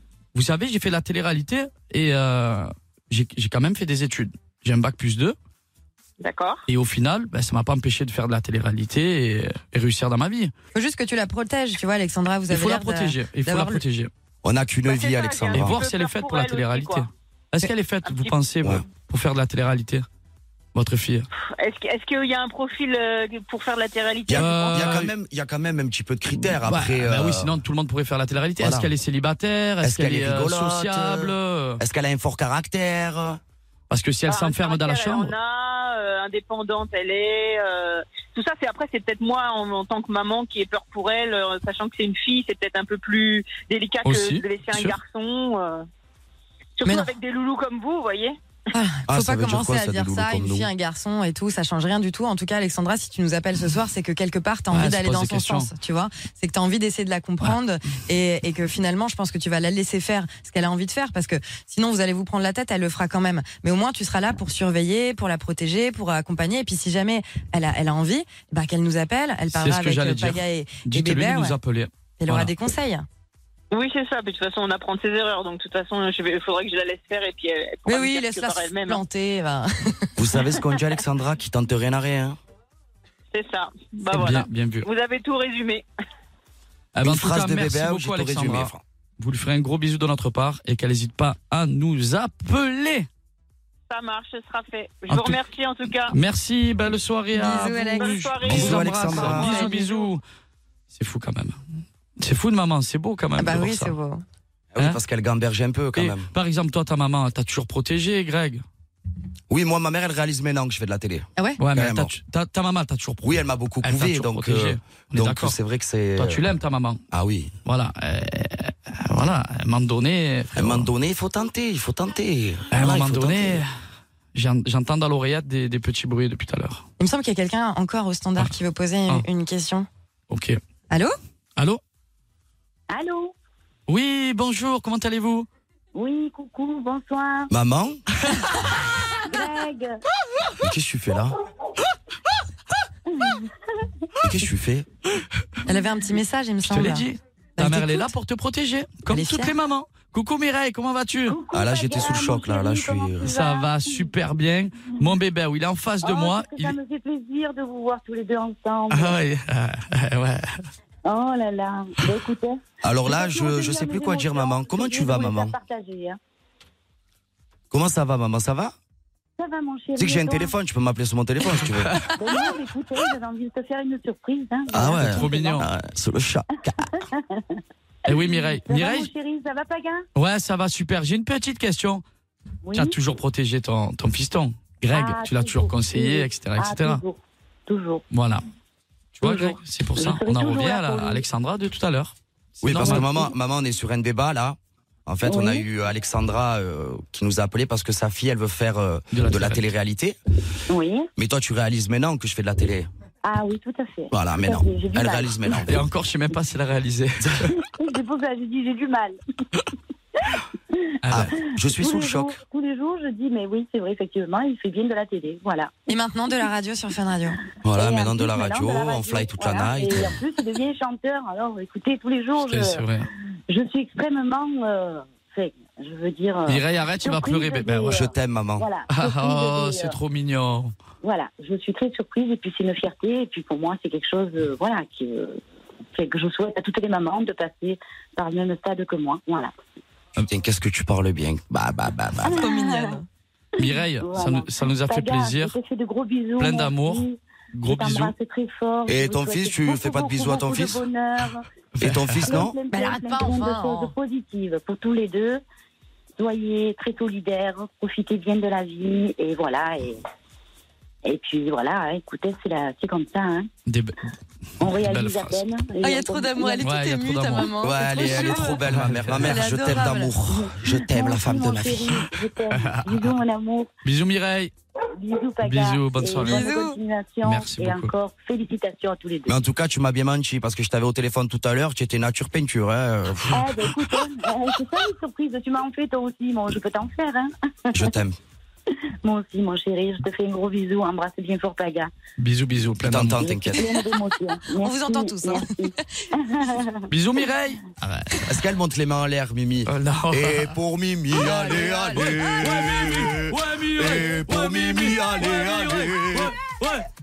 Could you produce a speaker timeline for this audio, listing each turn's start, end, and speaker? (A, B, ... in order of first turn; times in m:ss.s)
0:00.3-0:05.4 A
0:06.2-0:06.6 B
0:06.7-0:10.5 A
0:10.7-0:13.8 C
0:12.5-0:14.1 A
0:14.4-0:15.8 D
0:14.8-0:17.1 B
0:15.5-0:20.0 A
0:18.0-0:18.4 B
0:20.7-0:21.3 A
0:21.4-0:25.1 B
0:24.3-0:27.5 D
0:24.3-0:25.1 A
0:26.6-0:31.8 A
0:28.6-0:28.9 D
0:29.8-0:33.4 D
0:33.9-0:35.3 A
0:34.3-0:45.8 B
0:44.0-0:45.0 A
0:46.8-0:48.4 B
0:46.8-0:47.1 C
0:48.7-1:11.5 C
0:49.1-0:50.7 D
0:54.7-0:55.7 A
1:09.5-1:12.5 A
1:12.2-1:13.0 C
1:13.7-1:19.0 B
1:17.9-1:20.1 C
1:20.2-1:22.4 D
1:23.3-1:25.8 B
1:24.1-1:24.9 A
1:26.9-1:33.1 A
1:27.0-1:28.8 D
1:33.9-1:36.1 B
1:35.1-1:35.4 A
1:36.1-1:40.2 A
1:37.3-1:38.2 C
1:38.0-1:40.1 B
1:38.4-1:39.5 D
1:39.3-1:39.9 C
1:40.9-1:41.6 A
1:42.2-1:43.9 A
1:43.4-1:44.2 C
1:44.7-1:46.3 D
1:45.9-1:48.6 A
1:49.5-1:52.1 D
1:51.6-1:55.6 A
1:53.2-1:56.4 D
1:56.2-1:57.0 A
1:57.1-1:57.5 D
1:57.6-2:00.9 A
2:00.5-2:03.6 D
2:02.7-2:03.7 A
2:04.3-2:06.8 A
2:07.0-2:09.9 C
2:10.3-2:10.6 A
2:10.9-2:11.1 C
2:12.9-2:13.3 E
2:13.9-2:15.5 A
2:15.9-2:17.5 E
2:17.5-2:18.0 D
2:19.2-2:20.0 E
2:20.6-2:21.4 D
2:23.1-2:23.5 E
2:24.2-2:24.9 D
2:25.6-2:27.1 C
2:26.6-2:31.4 A
2:27.6-2:28.1 C
2:29.1-2:29.5 C
2:31.3-2:34.1 E
2:31.5-2:33.2 D
2:33.2-2:36.7 A
2:36.0-2:39.2 E
2:38.9-2:40.6 A
2:41.0-2:46.2 E
2:42.8-2:45.6 D
2:47.7-2:48.7 D
2:49.4-2:50.5 E
2:50.0-2:52.0 D
2:51.6-2:52.1 A
2:52.1-2:55.6 E
2:54.7-2:56.9 D
2:54.9-2:55.7 A
2:56.9-3:00.0 E
2:58.0-2:59.1 A
3:00.1-3:02.0 A
3:02.6-3:03.0 E
3:02.7-3:07.0 A
3:04.9-3:08.0 E
3:08.1-3:08.4 A
3:09.2-3:13.2 A
3:09.2-3:11.2 E
3:12.6-3:20.2 D
3:15.2-3:15.6 E
3:19.1-3:19.7 A
3:20.7-3:21.1 E
3:21.2-3:22.9 D
3:23.2-3:25.6 E
3:24.1-3:25.8 D
3:25.7-3:27.5 A
3:27.5-3:29.2 E
3:31.0-3:31.3 A
3:31.1-3:32.4 D
3:31.4-3:35.9 E
3:35.9-3:37.4 C
3:37.6-3:40.2 D
3:37.7-3:42.8 E
3:42.4-3:43.1 A
3:43.5-3:50.0 E
3:46.5-3:48.0 A
3:47.9-3:48.6 D
3:48.9-3:50.7 A
3:51.0-3:55.4 E
3:55.9-3:59.5 E
4:00.3-4:02.5 D
4:02.2-4:03.0 E
4:02.2-4:03.0 C
4:03.6-4:05.5 A
4:03.6-4:11.4 E
4:06.4-4:08.1 A
4:08.9-4:10.8 D
4:11.8-4:12.4 A
4:11.8-4:12.6 D
4:12.2-4:15.4 E
4:12.7-4:13.9 C
4:16.2-4:20.0 E
4:21.0-4:23.5 E
4:23.7-4:24.0 A
4:24.6-4:26.6 E
4:24.6-4:25.4 A
4:25.8-4:28.6 C
4:26.6-4:27.5 A
4:27.6-4:32.1 D
4:28.6-4:29.5 A
4:29.2-4:30.1 C
4:30.2-4:33.7 E
4:32.5-4:33.1 A
4:33.8-4:34.5 A
4:35.0-4:39.4 E
4:35.4-4:36.5 A
4:36.2-4:36.8 C
4:37.2-4:37.9 A
4:39.2-4:44.0 D
4:43.3-4:47.9 E
4:47.7-4:48.2 D
4:49.0-4:51.9 E
4:52.2-4:53.5 A
4:52.8-4:53.7 D
4:53.2-4:56.9 E
4:54.6-4:55.6 C
4:56.9-4:58.3 A
4:58.3-5:06.3 D
4:59.7-5:00.5 A
5:01.1-5:02.2 C
5:01.9-5:06.8 A